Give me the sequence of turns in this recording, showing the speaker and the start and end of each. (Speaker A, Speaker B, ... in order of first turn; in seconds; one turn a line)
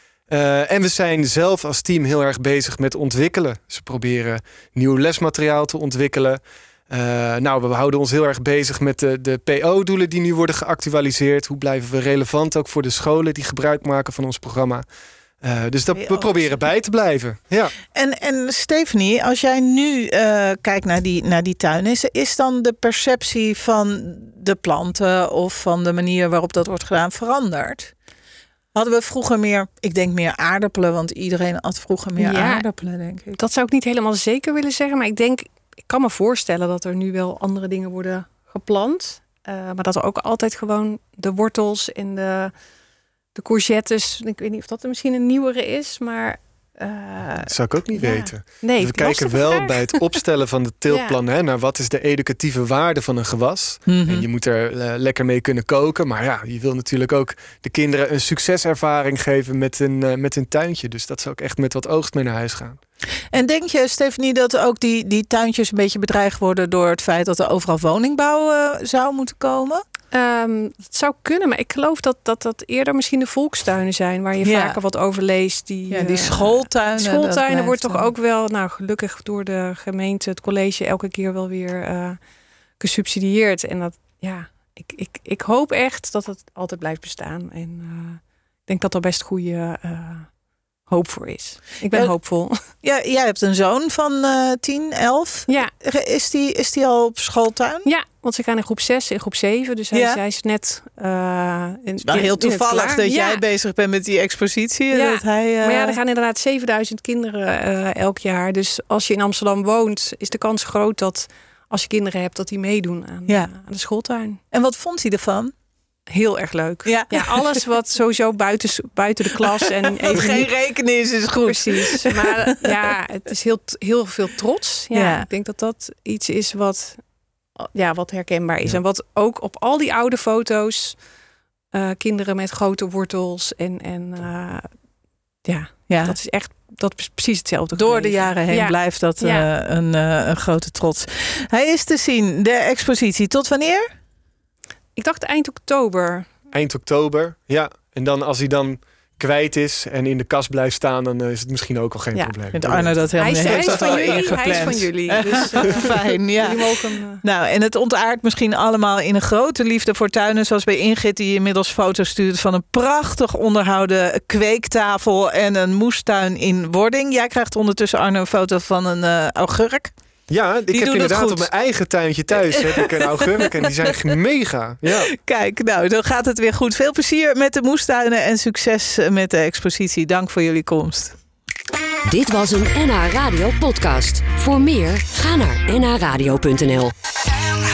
Speaker A: 0.3-14.8
Speaker A: 15.4-17.7
Speaker B: 15.9-16.6
Speaker B: 17.9-27.9
Speaker B: 28.7-33.4
Speaker C: 32.2-32.6
Speaker C: 33.3-42.5
Speaker C: 43.3-50.0
Speaker A: 47.5-62.8
Speaker C: 50.9-51.2
Speaker B: 53.9-54.2
Speaker B: 63.3-69.8
Speaker C: 70.1-82.2
Speaker B: 74.4-74.8
Speaker B: 75.9-78.1
Speaker C: 82.8-90.3
Speaker C: 90.9-92.5
Speaker B: 91.9-92.1
Speaker B: 92.8-97.8
Speaker C: 97.8-103.4
Speaker B: 99.9-100.2
Speaker B: 102.0-106.0
Speaker C: 104.9-114.4
Speaker B: 114.5-115.5
Speaker C: 116.1-120.5
Speaker B: 116.8-117.6
Speaker B: 119.3-122.7
Speaker C: 121.4-127.0
Speaker B: 124.9-125.3
Speaker C: 127.6-131.0
Speaker C: 131.7-134.8
Speaker C: 135.4-139.5
Speaker B: 135.9-136.2
Speaker B: 137.7-143.9
Speaker C: 144.9-146.3
Speaker A: 146.5-154.8
Speaker B: 152.5-169.9
Speaker C: 153.1-157.2
Speaker A: 170.3-175.1
Speaker B: 170.7-171.5
Speaker B: 172.4-173.9
Speaker B: 174.9-181.1
Speaker D: 182.1-186.9